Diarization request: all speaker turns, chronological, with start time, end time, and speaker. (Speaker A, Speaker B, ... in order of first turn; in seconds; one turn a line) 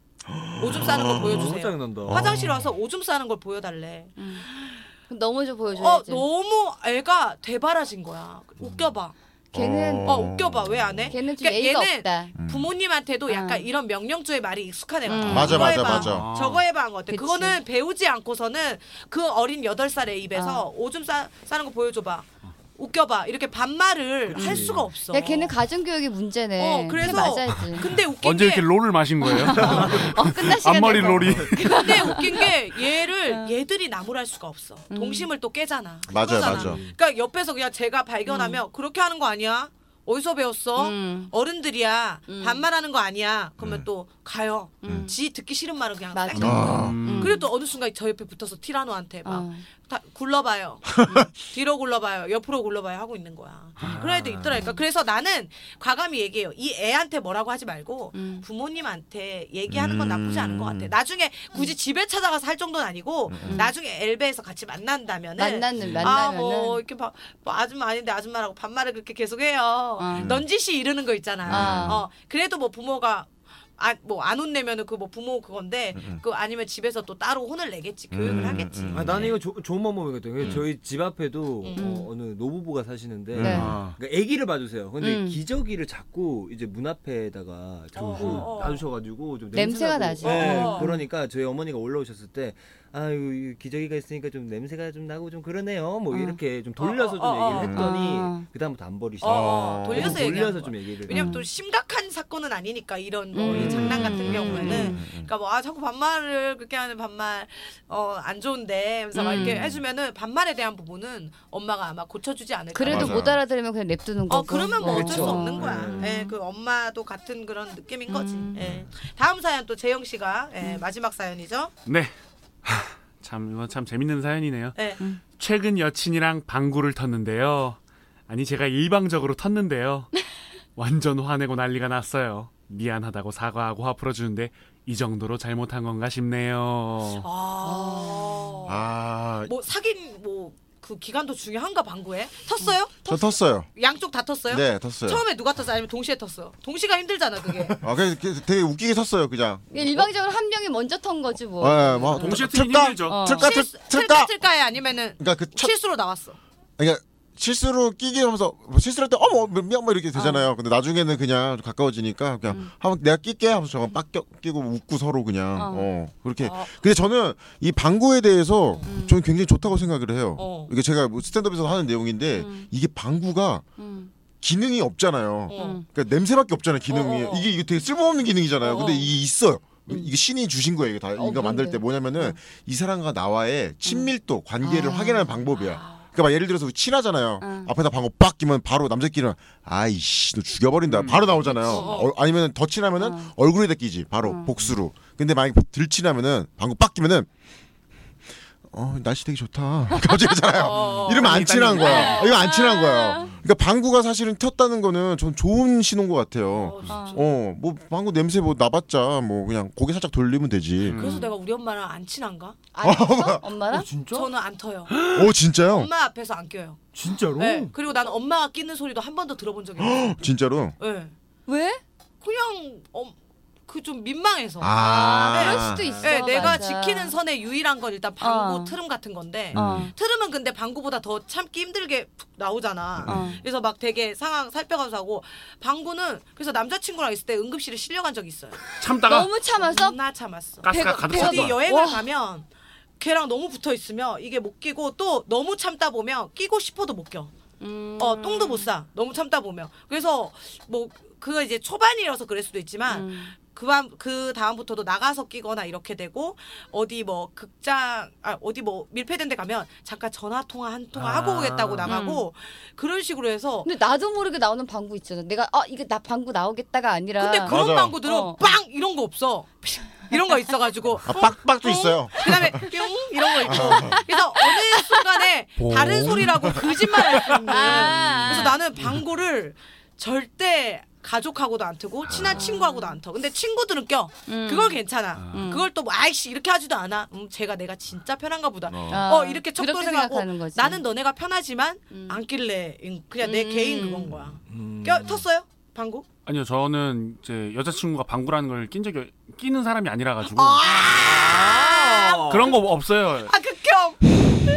Speaker A: 0.3-1.5
Speaker B: 0.6-4.9
Speaker C: 0.7-2.4
Speaker A: 2.1-2.7
Speaker D: 4.2-4.5
Speaker D: 5.1-6.3
Speaker B: 5.8-9.1
Speaker C: 8.6-8.9
Speaker D: 9.5-10.3
Speaker A: 9.5-11.2
Speaker B: 10.0-25.6
Speaker D: 11.1-12.3
Speaker A: 12.4-12.7
Speaker D: 13.3-13.7
Speaker D: 15.1-16.1
Speaker A: 15.2-16.3
Speaker E: 15.3-16.6
Speaker D: 17.1-17.6
Speaker D: 20.4-20.6
Speaker C: 24.3-24.9
Speaker D: 24.4-27.9
Speaker B: 26.6-28.7
Speaker E: 27.8-32.2
Speaker D: 29.2-32.5
Speaker C: 29.7-30.1
Speaker C: 31.0-31.5
Speaker B: 31.6-79.4
Speaker D: 33.3-33.5
Speaker D: 34.9-35.3
Speaker A: 36.1-36.8
Speaker C: 36.4-36.9
Speaker D: 38.3-38.6
Speaker D: 40.8-41.3
Speaker D: 42.3-42.6
Speaker A: 43.6-43.9
Speaker D: 44.8-45.2
Speaker A: 44.8-45.1
Speaker D: 46.1-47.5
Speaker A: 46.4-47.0
Speaker E: 46.5-47.4
Speaker D: 49.2-49.6
Speaker A: 51.0-51.3
Speaker E: 53.8-54.1
Speaker C: 53.8-54.6
Speaker D: 58.1-58.5
Speaker A: 59.7-60.9
Speaker A: 63.3-63.6
Speaker D: 63.5-63.7
Speaker D: 65.4-66.8
Speaker C: 65.8-66.1
Speaker D: 70.0-70.4
Speaker A: 70.1-70.4
Speaker A: 71.5-72.0
Speaker D: 71.5-72.0
Speaker A: 76.0-76.2
Speaker A: 78.1-79.3
Speaker C: 78.3-101.3
Speaker B: 81.6-81.9
Speaker D: 81.8-82.1
Speaker A: 83.3-83.8
Speaker D: 83.4-83.7
Speaker E: 83.5-84.0
Speaker D: 85.0-85.4
Speaker B: 88.0-88.8
Speaker E: 88.2-88.5
Speaker D: 89.5-91.0
Speaker B: 90.2-91.0
Speaker D: 96.1-96.4
Speaker B: 96.8-97.8
Speaker A: 97.5-97.9
Speaker D: 97.7-98.5
Speaker B: 99.2-113.4
Speaker A: 99.2-100.2
Speaker D: 101.1-101.5
Speaker D: 103.3-105.0
Speaker A: 103.5-105.3
Speaker D: 109.1-109.7
Speaker A: 109.3-109.7
Speaker D: 112.7-116.3
Speaker A: 112.8-113.4
Speaker B: 114.3-121.7
Speaker C: 114.8-116.2
Speaker D: 118.1-118.7
Speaker E: 121.9-122.1
Speaker E: 122.7-124.8
Speaker B: 124.8-125.0
Speaker E: 125.3-127.8
Speaker E: 128.3-130.1
Speaker E: 130.8-137.2
Speaker B: 137.2-138.9
Speaker D: 137.6-138.7
Speaker A: 138.7-139.5
Speaker B: 139.4-147.8
Speaker A: 143.1-143.7
Speaker A: 144.5-145.2
Speaker A: 147.8-150.1
Speaker D: 149.7-152.5
Speaker A: 151.6-154.3
Speaker E: 152.2-153.2
Speaker D: 153.1-153.5
Speaker B: 153.3-156.4
Speaker A: 155.2-155.7
Speaker A: 156.8-173.7
Speaker D: 160.2-160.5
Speaker D: 165.6-165.9
Speaker B: 166.4-166.7
Speaker D: 168.9-169.2
Speaker B: 170.4-170.7
Speaker D: 172.4-172.7
Speaker D: 173.8-174.1
Speaker A: 174.4-197.3
Speaker B: 175.5-175.8
Speaker D: 175.5-175.8
Speaker B: 176.9-177.5
Speaker B: 178.6-179.1
Speaker D: 181.2-182.4
Speaker D: 184.6-185.5
Speaker B: 185.6-186.1
Speaker D: 187.4-187.7
Speaker E: 190.9-191.5
Speaker D: 191.6-191.9
Speaker B: 191.6-192.1
Speaker D: 193.0-193.3
Speaker D: 194.2-194.5
Speaker A: 198.7-211.0
Speaker B: 200.6-202.2
Speaker E: 201.0-202.2
Speaker D: 201.8-203.3
Speaker B: 206.5-207.3
Speaker D: 206.9-207.2
Speaker E: 210.8-211.3
Speaker B: 210.9-212.6
Speaker D: 212.8-213.9
Speaker A: 212.8-213.5
Speaker C: 213.7-214.3
Speaker B: 214.1-215.1
Speaker A: 215.1-215.9
Speaker B: 215.6-216.9
Speaker C: 216.9-217.8
Speaker B: 217.4-220.2
Speaker A: 219.8-220.8
Speaker B: 220.8-221.1
Speaker D: 221.5-221.8
Speaker B: 222.2-223.2
Speaker B: 223.7-238.6
Speaker A: 224.6-226.6
Speaker D: 224.8-227.2
Speaker C: 225.8-226.3
Speaker D: 228.2-228.8
Speaker A: 229.5-229.9
Speaker D: 229.5-229.9
Speaker A: 233.0-233.3
Speaker D: 233.1-233.4
Speaker E: 238.8-239.3
Speaker D: 239.0-240.0
Speaker B: 239.6-242.5
Speaker E: 240.6-241.6
Speaker D: 240.7-242.1
Speaker B: 243.0-247.3
Speaker D: 247.6-248.7
Speaker B: 248.0-263.7
Speaker D: 252.9-253.3
Speaker C: 261.0-261.9
Speaker E: 261.2-261.9
Speaker D: 261.9-262.3
Speaker D: 263.6-268.4
Speaker B: 267.2-296.1
Speaker A: 267.5-268.0
Speaker A: 271.1-272.7
Speaker A: 273.5-274.0
Speaker D: 273.5-275.0
Speaker E: 275.6-276.7
Speaker D: 277.3-278.6
Speaker C: 277.9-278.2
Speaker D: 282.3-283.0
Speaker D: 284.3-285.7
Speaker E: 285.2-285.4
Speaker A: 288.7-289.0
Speaker D: 288.9-290.8
Speaker D: 291.9-292.2
Speaker D: 293.2-294.1
Speaker C: 294.5-295.3
Speaker E: 296.3-301.1
Speaker B: 300.3-302.6
Speaker C: 300.7-302.6
Speaker E: 302.3-303.3
Speaker B: 303.3-304.0